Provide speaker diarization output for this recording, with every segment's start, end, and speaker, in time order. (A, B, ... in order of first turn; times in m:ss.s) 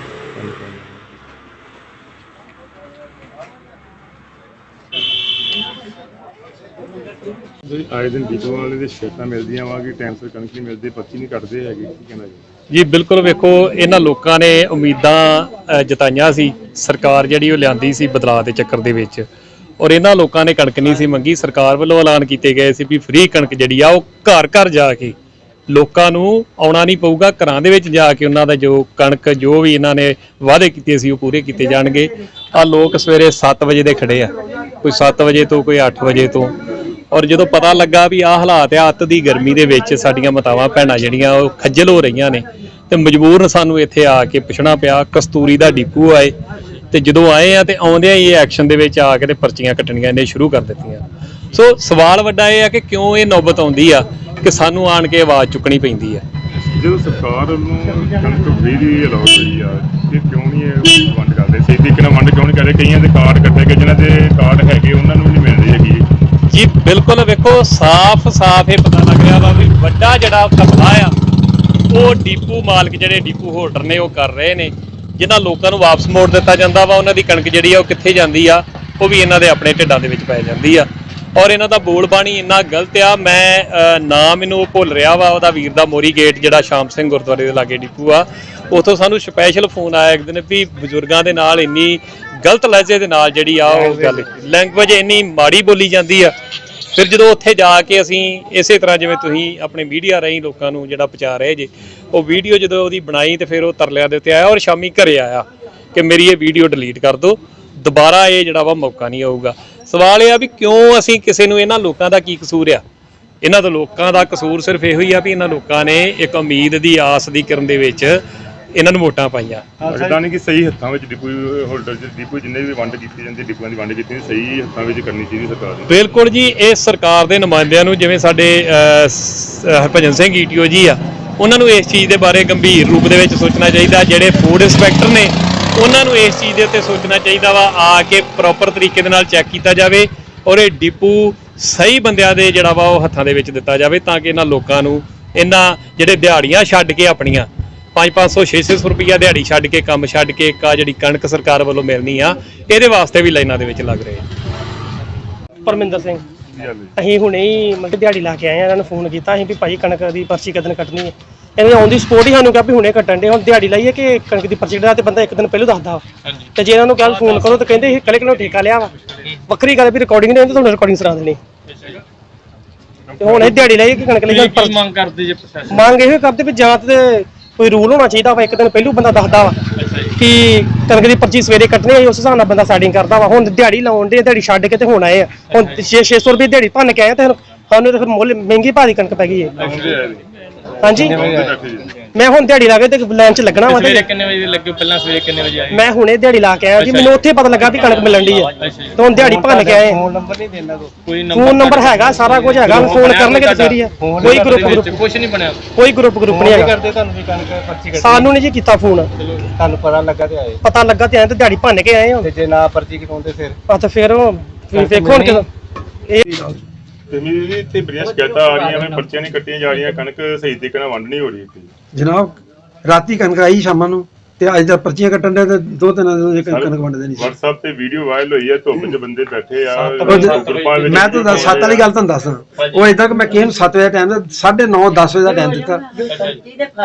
0:00.3-0:01.0 A
0:07.6-0:12.4 A
0:12.7-0:19.2 B
0:19.8-0:25.1 B
0:25.7-0:36.5 B
0:37.1-0:46.3 B
0:46.9-0:51.0 B
0:51.5-0:56.2 B
0:56.6-1:06.1 A
1:06.5-1:11.1 B
1:11.9-1:36.3 B
1:33.6-1:34.3 C
1:36.9-1:52.8 B
1:53.4-1:58.1 B
1:58.8-1:59.6 B
1:59.8-2:00.2 C
1:59.9-2:05.9 A
2:05.9-2:34.2 B
2:35.6-2:36.2 D
2:36.5-2:36.9 A
2:37.0-2:46.0 D
2:46.6-2:48.9 D
2:47.0-2:48.6 E
2:49.1-2:49.4 E
2:49.5-2:51.4 D
2:51.7-2:52.0 E
2:53.1-2:53.6 A
2:53.2-2:54.8 D
2:54.2-2:55.9 E
2:55.7-2:59.6 D
2:59.8-3:00.1 E
3:00.2-3:09.6 D
3:05.5-3:05.8 E
3:09.6-3:10.2 A
3:10.8-3:11.2 D
3:10.8-3:12.0 A
3:10.9-3:11.7 C
3:12.1-3:14.1 D
3:13.6-3:15.8 E
3:15.7-3:20.0 D
3:16.8-3:19.0 E
3:19.1-3:20.9 C
3:21.0-3:25.6 E
3:21.3-3:25.0 D
3:24.0-3:25.0 C
3:25.7-3:26.8 D
3:26.3-3:28.3 C
3:28.0-3:29.1 D
3:29.6-3:30.6 C
3:30.6-3:32.3 D
3:32.2-3:33.6 C
3:33.7-3:35.4 D
3:34.7-3:35.4 C
3:36.2-3:36.6 F
3:37.1-3:41.7 A
3:41.9-3:47.3 F
3:46.5-3:51.9 A
3:49.7-3:51.7 E
3:50.0-3:55.9 F
3:52.6-3:52.9 E
3:56.1-3:56.6 E